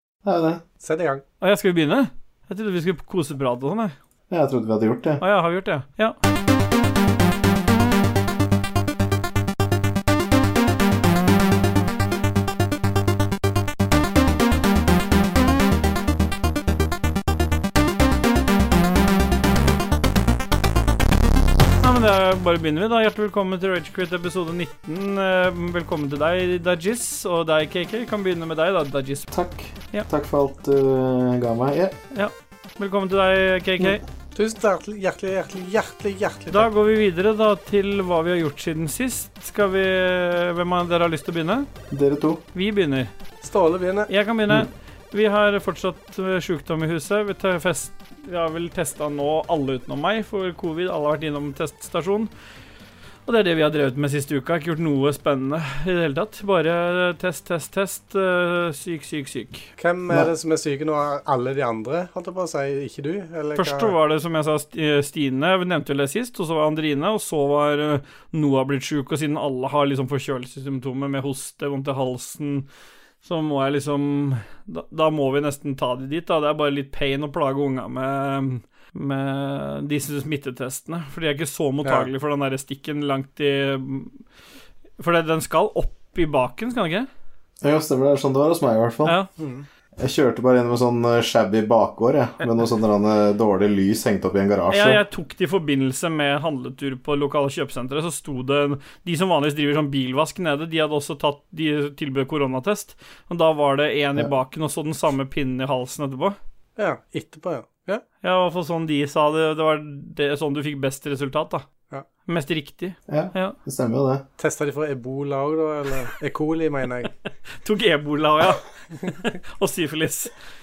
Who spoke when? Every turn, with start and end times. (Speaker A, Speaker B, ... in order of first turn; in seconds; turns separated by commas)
Speaker A: 0.2-0.6, Speaker B: 0.8-1.2, Speaker C: 1.4-3.9, Speaker A: 4.3-5.2, Speaker C: 5.2-6.2, Speaker C: 21.8-29.3, Speaker A: 29.3-31.9, Speaker C: 32.1-34.0, Speaker B: 34.3-36.7, Speaker C: 36.5-41.7, Speaker A: 41.9-42.4, Speaker C: 42.5-43.1, Speaker B: 43.4-44.1, Speaker C: 44.1-52.3, Speaker C: 53.2-59.7, Speaker B: 59.8-63.9, Speaker C: 63.5-72.7, Speaker C: 73.2-84.2, Speaker C: 85.0-87.1, Speaker A: 87.6-89.2, Speaker B: 89.4-89.7, Speaker A: 90.0-95.0, Speaker C: 94.7-106.3, Speaker B: 106.8-108.0, Speaker C: 108.2-111.6, Speaker C: 112.3-113.5, Speaker A: 113.1-114.2, Speaker B: 114.4-117.1, Speaker C: 117.6-120.3